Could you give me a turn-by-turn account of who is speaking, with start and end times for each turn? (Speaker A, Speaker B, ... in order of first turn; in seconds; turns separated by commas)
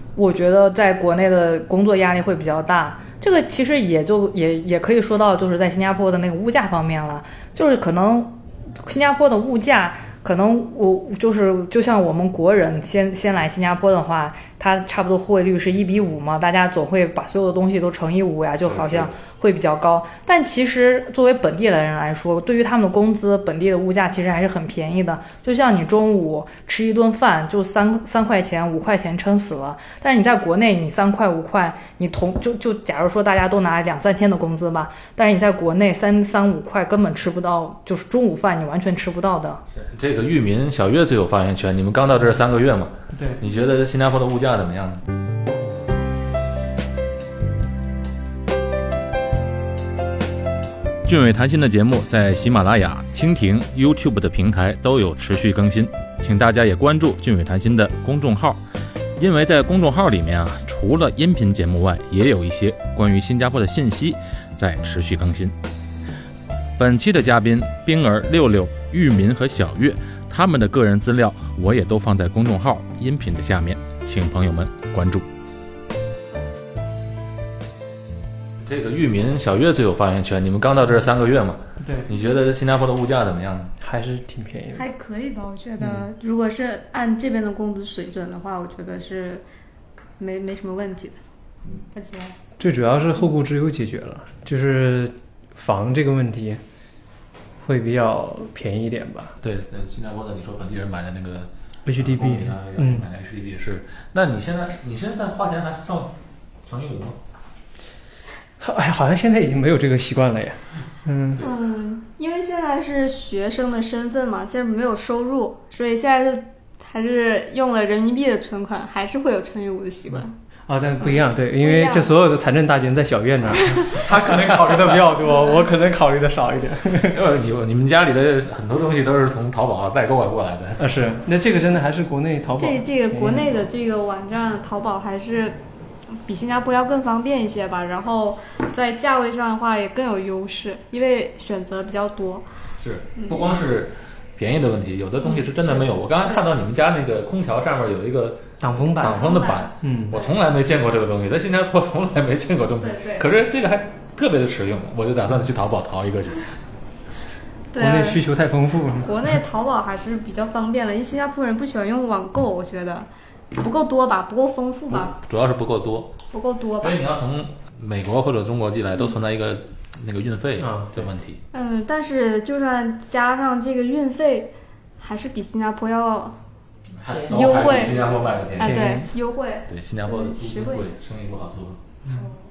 Speaker A: 0.2-39.6, Speaker B: 18.7-19.2, Speaker B: 39.7-45.0, Speaker C: 43.1-43.4, Speaker B: 51.1-58.6, Speaker B: 59.2-65.5, Speaker B: 66.8-75.3, Speaker B: 78.6-83.7, Speaker C: 81.8-82.1, Speaker C: 83.8-84.9, Speaker D: 84.7-89.5, Speaker C: 85.8-86.1, Speaker D: 90.2-91.2, Speaker D: 91.9-92.3, Speaker C: 92.6-96.6, Speaker C: 97.6-99.4, Speaker B: 99.4-106.1, Speaker C: 101.9-103.1, Speaker B: 106.7-107.2, Speaker C: 108.6-111.5, Speaker D: 111.4-120.3, Speaker C: 120.1-127.2, Speaker D: 121.0-122.1, Speaker B: 127.0-130.8, Speaker C: 130.8-133.6, Speaker D: 132.6-135.6, Speaker D: 136.2-142.5, Speaker B: 142.8-156.5, Speaker D: 143.2-143.5, Speaker D: 145.2-145.9, Speaker C: 148.6-150.2, Speaker D: 149.0-150.3, Speaker D: 152.8-153.3, Speaker D: 157.7-158.3, Speaker C: 157.8-159.4, Speaker D: 159.0-165.2, Speaker B: 164.9-166.1, Speaker D: 166.3-167.0, Speaker B: 166.8-171.4, Speaker C: 170.6-171.0, Speaker D: 171.5-176.4, Speaker B: 177.0-178.9, Speaker A: 177.1-177.9, Speaker D: 177.3-178.0, Speaker D: 178.6-180.9, Speaker C: 178.6-179.1, Speaker B: 179.7-181.8